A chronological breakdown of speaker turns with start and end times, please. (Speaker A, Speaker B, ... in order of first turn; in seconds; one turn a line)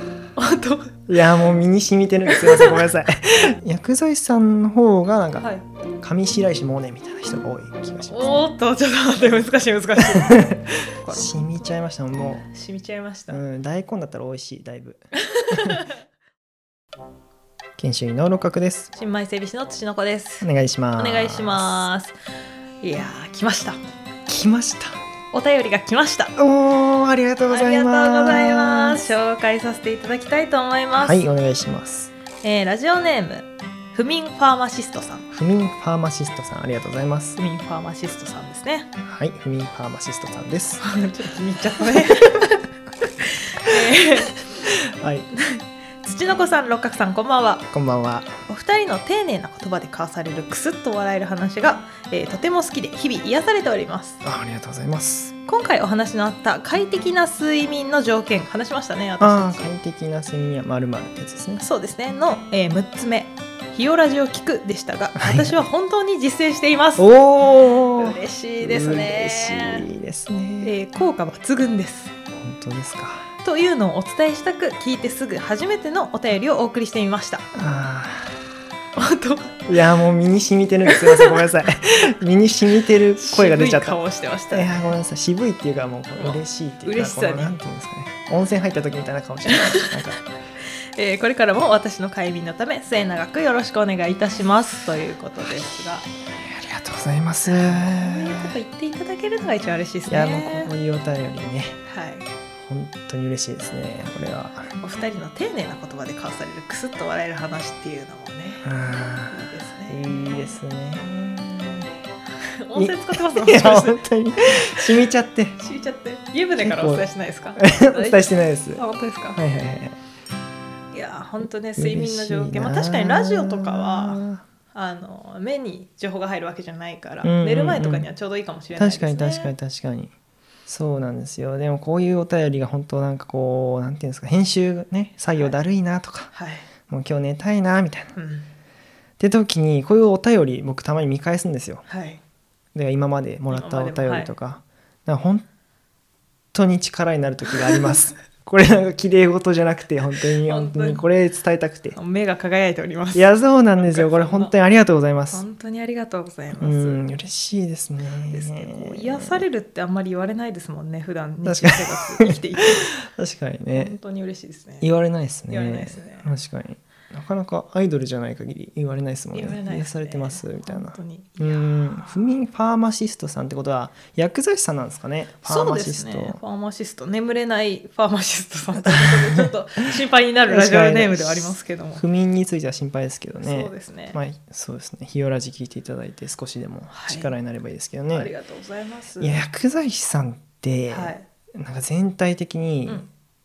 Speaker A: 0.4-1.0
Speaker B: 1.1-5.5
Speaker A: 2.3-3.6
Speaker B: 6.0-8.3
Speaker A: 8.1-11.6
Speaker B: 10.0-12.5
Speaker A: 12.5-13.4
Speaker B: 13.3-15.9
Speaker A: 15.3-15.9
Speaker B: 17.8-18.9
Speaker A: 18.9-22.1
Speaker B: 20.4-21.9
Speaker A: 22.8-23.8
Speaker B: 24.3-25.0
Speaker A: 25.3-26.3
Speaker B: 26.4-29.1
Speaker A: 27.5-31.2
Speaker B: 31.0-32.1
Speaker A: 32.4-35.3
Speaker B: 35.3-37.4
Speaker A: 37.4-38.9
Speaker B: 39.0-40.8
Speaker A: 40.8-44.5
Speaker B: 41.8-42.4
Speaker B: 44.6-45.3
Speaker A: 45.4-47.6
Speaker B: 47.7-48.4
Speaker A: 48.5-54.2
Speaker B: 54.2-55.3
Speaker A: 55.5-59.7
Speaker B: 59.2-61.6
Speaker A: 61.6-67.1
Speaker B: 65.2-65.7
Speaker B: 67.0-70.7
Speaker A: 68.0-69.9
Speaker A: 70.6-72.1
Speaker B: 72.4-73.3
Speaker A: 73.4-77.5
Speaker B: 77.5-78.3
Speaker A: 79.0-79.6
Speaker B: 79.7-84.0
Speaker A: 80.9-81.4
Speaker A: 83.2-84.9
Speaker B: 84.5-90.2
Speaker A: 86.2-87.6
Speaker A: 89.5-89.9
Speaker A: 91.0-96.1
Speaker B: 96.4-98.6
Speaker A: 97.5-100.7
Speaker B: 100.1-101.8
Speaker A: 101.9-102.3
Speaker B: 102.6-104.7
Speaker A: 104.8-108.8
Speaker B: 108.6-111.9
Speaker A: 109.3-110.1
Speaker A: 112.5-114.0
Speaker B: 112.8-115.6
Speaker A: 114.5-114.8
Speaker A: 115.6-119.4
Speaker B: 116.6-117.1
Speaker B: 117.6-120.0
Speaker A: 120.9-129.5
Speaker B: 121.8-124.4
Speaker B: 127.2-128.1
Speaker B: 128.8-130.1
Speaker B: 130.7-136.3
Speaker A: 136.3-136.7
Speaker B: 136.9-138.2
Speaker A: 138.2-138.5
Speaker B: 139.2-141.8
Speaker A: 141.9-142.2
Speaker B: 142.8-145.4
Speaker A: 143.5-144.3
Speaker B: 146.5-152.0
Speaker A: 150.5-151.1
Speaker A: 152.0-154.5
Speaker B: 153.1-155.4
Speaker A: 155.3-157.0
Speaker B: 156.6-159.5
Speaker A: 158.3-162.9
Speaker B: 161.4-164.0
Speaker A: 163.7-164.9
Speaker B: 164.8-176.4
Speaker A: 165.5-166.3
Speaker A: 169.3-172.3
Speaker A: 175.4-182.0
Speaker B: 179.0-179.5
Speaker B: 180.5-188.3
Speaker A: 183.4-184.2
Speaker A: 186.9-187.3
Speaker A: 188.1-189.4
Speaker B: 189.2-193.1
Speaker A: 190.9-191.3